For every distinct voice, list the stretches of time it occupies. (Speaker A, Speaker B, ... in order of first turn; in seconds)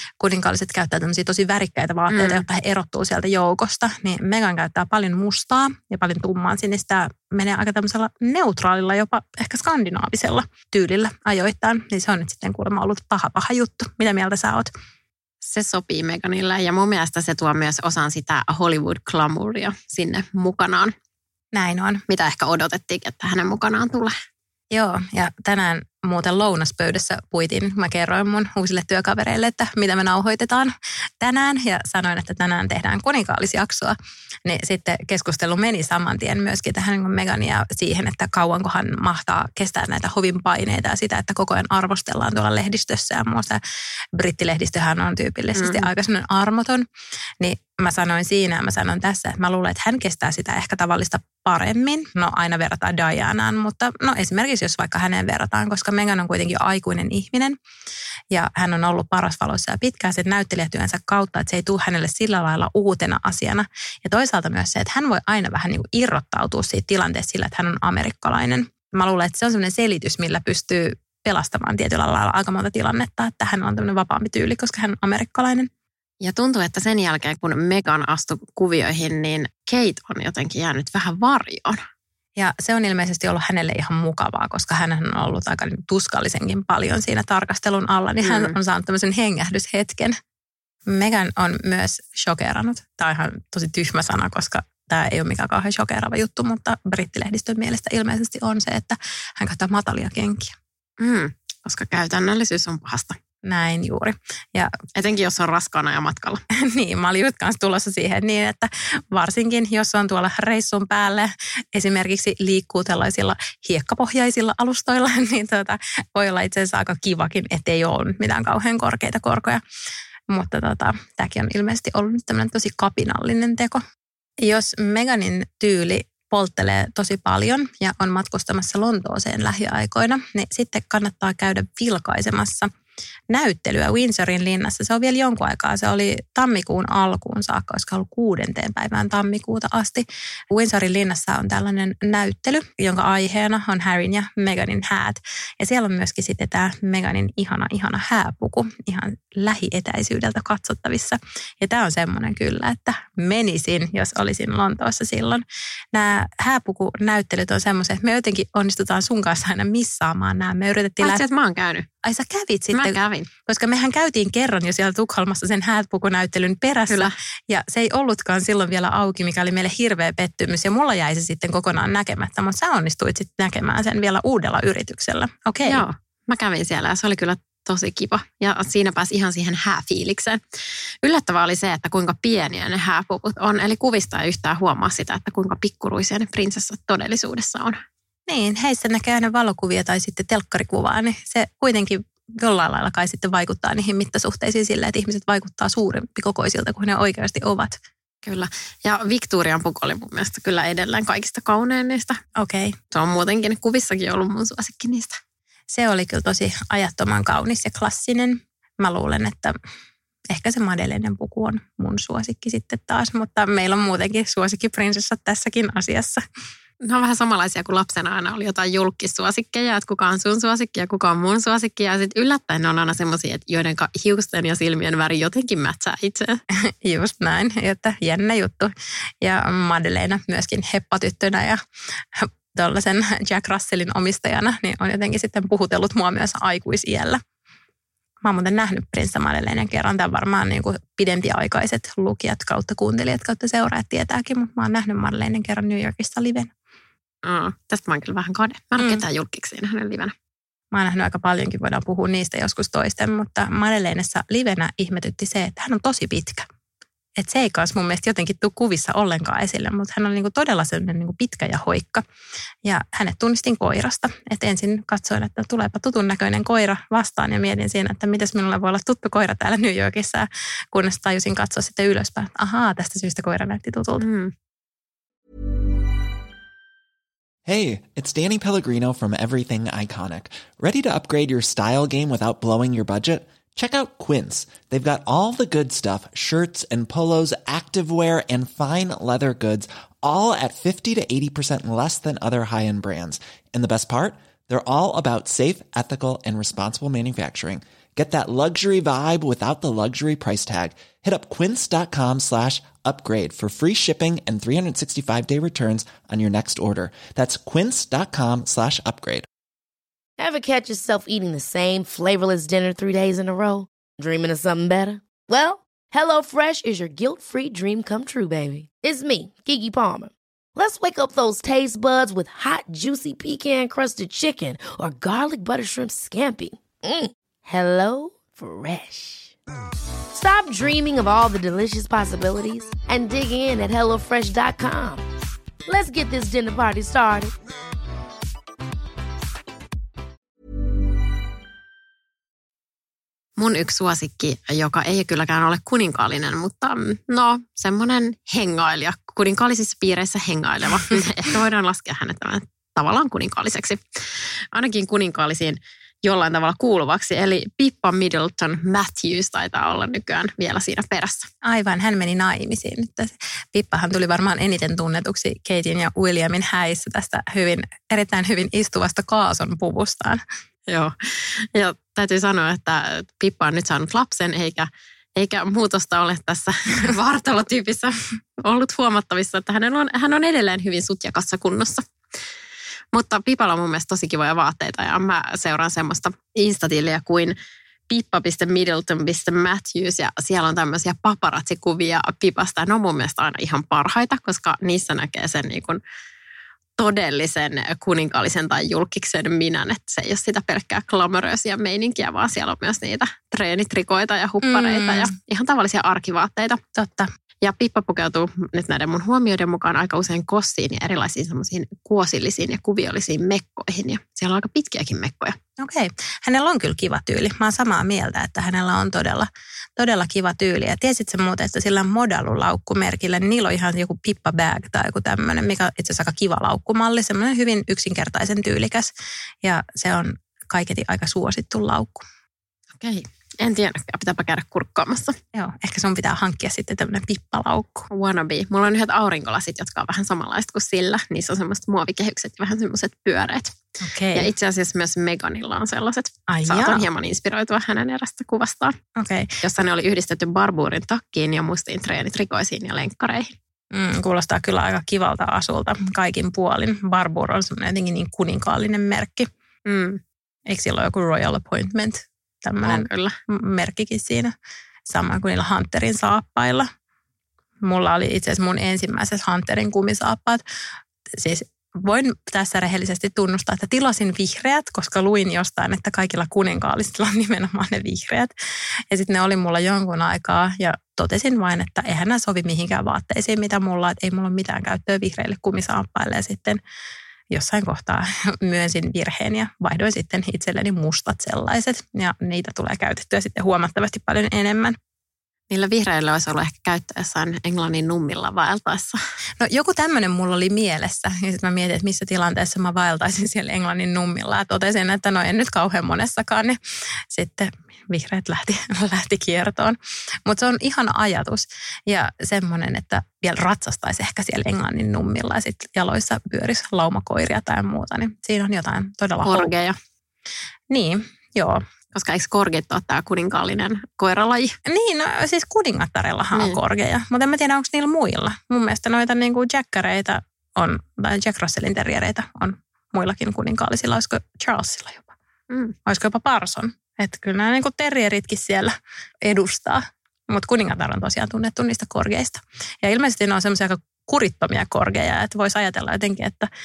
Speaker A: 0.2-14.7, 21.5-22.0, 24.7-43.6, 44.1-46.9, 47.4-57.6, 58.3-75.7, 82.4-90.2, 90.9-100.5, 103.4-104.7, 106.5-119.6, 120.3-123.8, 124.4-132.7, 133.3-161.2, 162.0-175.8, 188.3-197.8, 202.4-202.8, 205.7-209.6, 210.3-216.2, 226.8-231.6, 232.2-237.2, 238.2-246.5, 248.8-249.0, 250.7-256.4, 257.2-262.0, 262.6-274.0, 361.4-370.2, 404.4-405.1, 406.8-407.1, 415.6-428.9, 429.4-432.0, 435.3-437.9, 443.8-444.3, 446.3-446.8, 449.0-449.3, 453.7-459.3, 460.5-464.3, 464.9-466.7, 467.6-470.4, 471.2-478.3, 478.9-486.6, 487.3-494.8, 499.4-506.6, 507.1-519.5, 520.7-521.6, 524.7-535.1, 535.9-546.5
Speaker B: 2.1-2.4, 15.4-20.9, 22.1-24.1, 45.6-45.9, 76.2-81.8, 88.2-88.5, 101.0-103.2, 105.0-106.4, 161.0-161.9, 162.7-163.3, 175.7-180.4, 181.0-187.8, 198.2-202.2, 202.9-205.2, 216.8-226.4, 247.2-250.1, 274.0-274.3, 343.4-353.8, 354.5-361.3, 370.7-381.8, 382.9-387.3, 387.9-395.8, 396.8-406.6, 407.4-415.4, 432.8-435.2, 437.9-443.5, 444.1-448.8, 449.4-453.3, 459.6-460.0, 462.6-463.1, 495.5-499.0, 519.2-519.8, 521.9-524.5, 535.5-535.7
Speaker C: 277.4-309.2
Speaker D: 310.2-329.3, 330.1-335.1, 335.6-337.3